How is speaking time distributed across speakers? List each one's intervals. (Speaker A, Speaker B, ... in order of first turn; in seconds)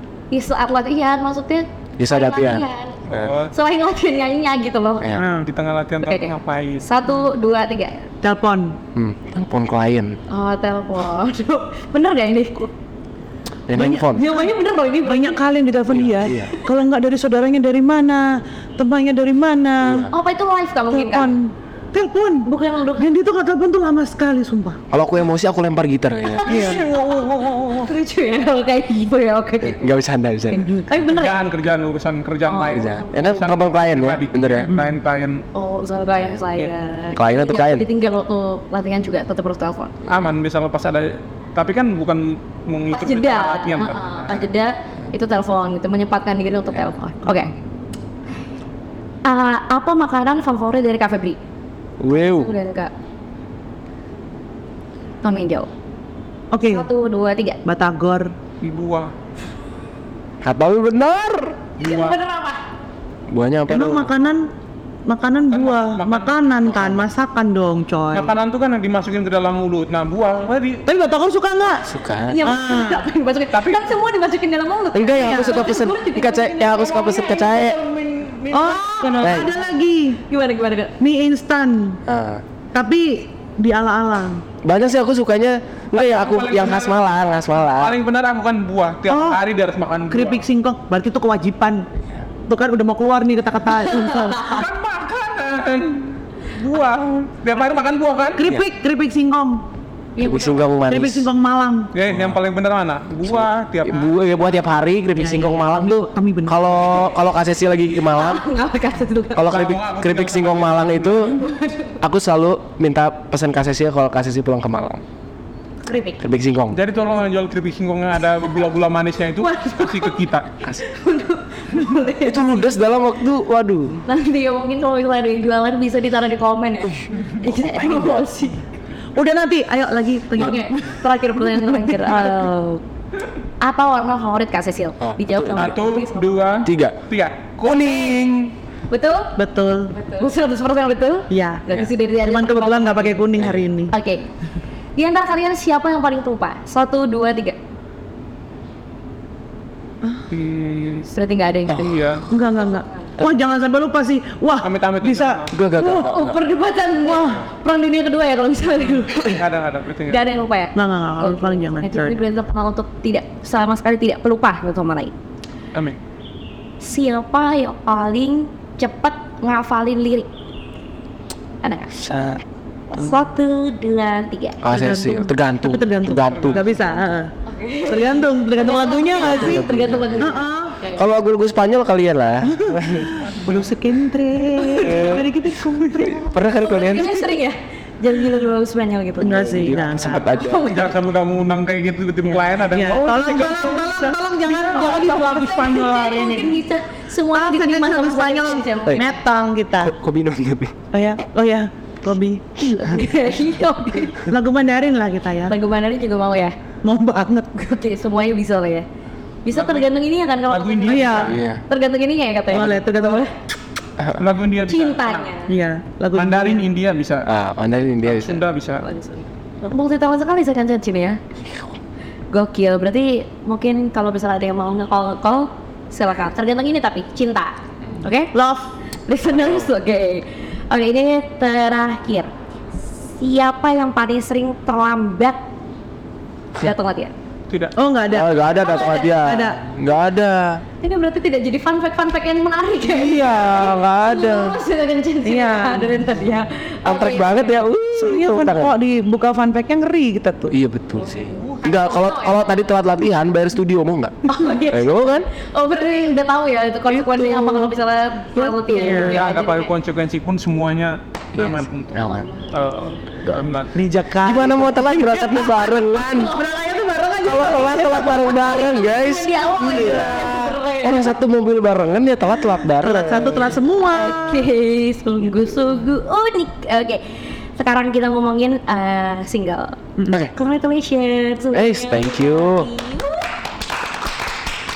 Speaker A: 0.3-3.0, 3.5-5.1, 6.0-8.0, 10.3-12.7, 14.1-15.4, 20.1-21.3, 22.4-23.1, 26.4-27.0, 27.8-29.9, 30.9-31.4, 32.5-33.0, 35.5-39.9, 42.9-47.5, 49.2-51.4, 52.1-52.9, 55.2-55.7, 56.7-57.6, 61.8-62.6, 72.3-79.3, 80.3-81.0, 100.2-100.6, 108.1-109.6, 111.4-112.0, 115.8-116.2, 119.4-120.2, 120.8-122.6, 124.0-128.6, 130.4-132.8, 133.6-136.6, 138.9-139.3, 139.9-143.2, 143.9-144.2, 144.9-147.6, 151.1-152.0, 155.8-159.4, 160.1-165.1, 166.8-170.3, 171.6-171.9, 172.9-174.6, 177.4-181.1, 186.6-190.9, 195.1-199.2, 202.6-204.2, 205.5-206.5, 207.5-208.8, 209.4-213.3, 214.7-215.5, 218.8-221.2, 222.3-228.3, 229.1-232.3, 233.0-235.4, 236.6-237.1, 238.6-239.1, 240.8-243.4, 243.9-247.7, 251.0-252.8, 254.2-259.7, 262.0-262.8, 266.1-266.5, 268.8-271.2, 274.1-279.8, 280.3-283.2
Speaker B: 2.0-3.3, 8.9-10.2, 13.7-14.3, 15.9-16.5, 24.9-26.7, 29.6-30.7, 32.6-34.7, 37.1-37.9, 52.0-52.5, 60.4-61.6, 63.3-64.1, 71.8-72.5, 74.9-77.8, 79.2-79.5, 82.0-82.4, 84.6-88.0, 100.2-101.3, 102.1-102.4, 103.2-108.4, 109.3-111.4, 112.0-115.0, 116.2-116.8, 122.2-124.0, 127.8-128.2, 135.0-135.8, 136.6-137.0, 137.6-138.5, 155.5-156.4, 171.9-172.4, 174.6-176.8, 179.2-180.3, 180.9-183.1, 184.8-185.3, 186.2-187.3, 189.2-190.7, 199.8-200.7, 211.2-211.6, 217.2-218.4, 221.4-221.8, 229.3-229.6, 238.1-240.6, 243.0-244.5, 246.8-248.7, 250.5-255.3, 256.9-257.7, 261.3-262.2, 264.1-266.3, 267.2-273.6, 281.5-282.7
Speaker C: 3.1-3.5, 5.4-6.8, 31.1-35.4, 40.0-44.4, 58.6-59.1, 61.8-62.2, 65.5-66.9, 68.1-70.8, 73.5-73.9, 78.0-78.8, 85.9-87.1, 87.7-90.4, 94.2-98.5, 101.9-104.1, 109.5-111.4, 116.7-120.5, 135.5-138.2, 150.3-151.1, 151.7-152.2, 154.6-155.6, 159.0-160.2, 176.2-176.8, 190.4-196.6, 209.5-209.9, 210.5-211.4, 214.2-215.3, 216.1-217.3, 218.0-218.8, 237.5-237.8, 258.9-263.7
Speaker D: 5.1-5.5, 8.2-8.8, 13.7-20.1, 20.9-24.8, 26.4-27.9, 30.6-31.0, 56.5-56.9, 57.6-58.3, 63.7-64.5, 65.1-68.3, 70.8-71.8, 72.4-73.1, 78.5-80.2, 81.0-82.0, 82.7-84.4, 89.1-89.4, 90.1-91.9, 92.5-94.6, 98.4-99.6, 100.9-101.9, 105.2-106.7, 129.1-132.5, 139.4-139.9, 141.3-141.6, 142.2-143.9, 152.3-155.4, 157.0-157.4, 160.7-162.2, 174.7-177.3, 177.9-179.7, 180.2-180.8, 182.5-186.3, 189.2-190.2, 192.7-196.4, 197.3-199.9, 200.9-203.0, 204.3-205.5, 206.8-207.6, 210.8-211.3, 212.5-213.2, 215.5-216.7, 228.3-228.7, 237.8-239.6, 242.9-244.2, 245.2-246.0, 247.9-250.5, 258.4-259.2, 263.2-265.4, 266.2-268.6, 269.4-270.5, 272.8-274.5